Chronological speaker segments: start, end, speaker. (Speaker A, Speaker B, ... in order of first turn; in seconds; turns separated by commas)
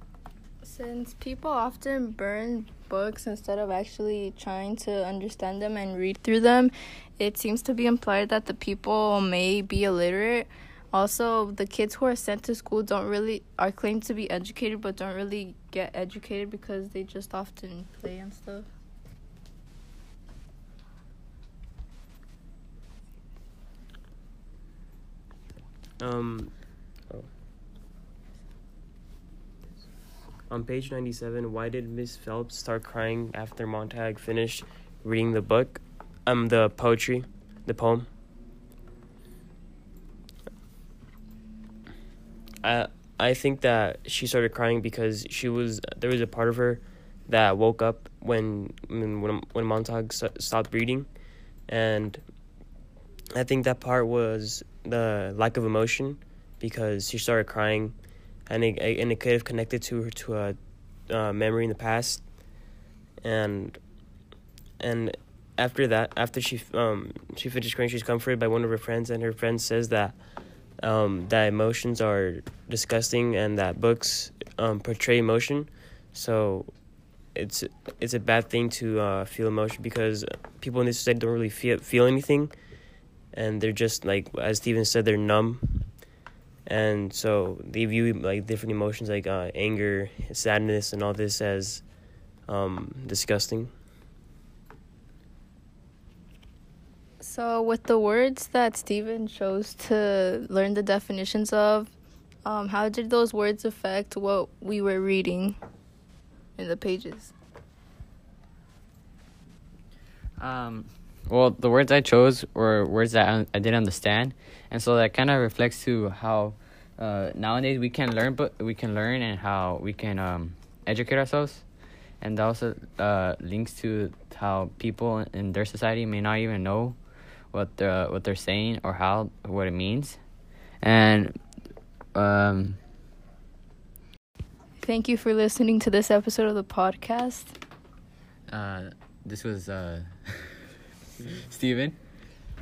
Speaker A: 0.6-18.7, Speaker B: 26.0-27.3, Speaker B: 30.5-38.1, Speaker B: 42.6-51.1, Speaker B: 51.7-52.2, Speaker B: 53.3-60.6, Speaker B: 61.1-62.3, Speaker B: 63.2-63.8, Speaker B: 64.8-70.2, Speaker B: 70.8-76.8, Speaker B: 77.3-82.5, Speaker B: 83.3-86.0, Speaker B: 86.7-91.9, Speaker B: 92.5-93.7, Speaker A: 97.2-101.9, Speaker A: 102.4-105.6, Speaker A: 106.5-107.3, Speaker C: 110.4-121.6, Speaker C: 122.2-127.0, Speaker C: 127.5-130.2, Speaker C: 130.8-131.3, Speaker C: 132.1-132.8, Speaker A: 134.8-137.6, Speaker C: 138.5-142.0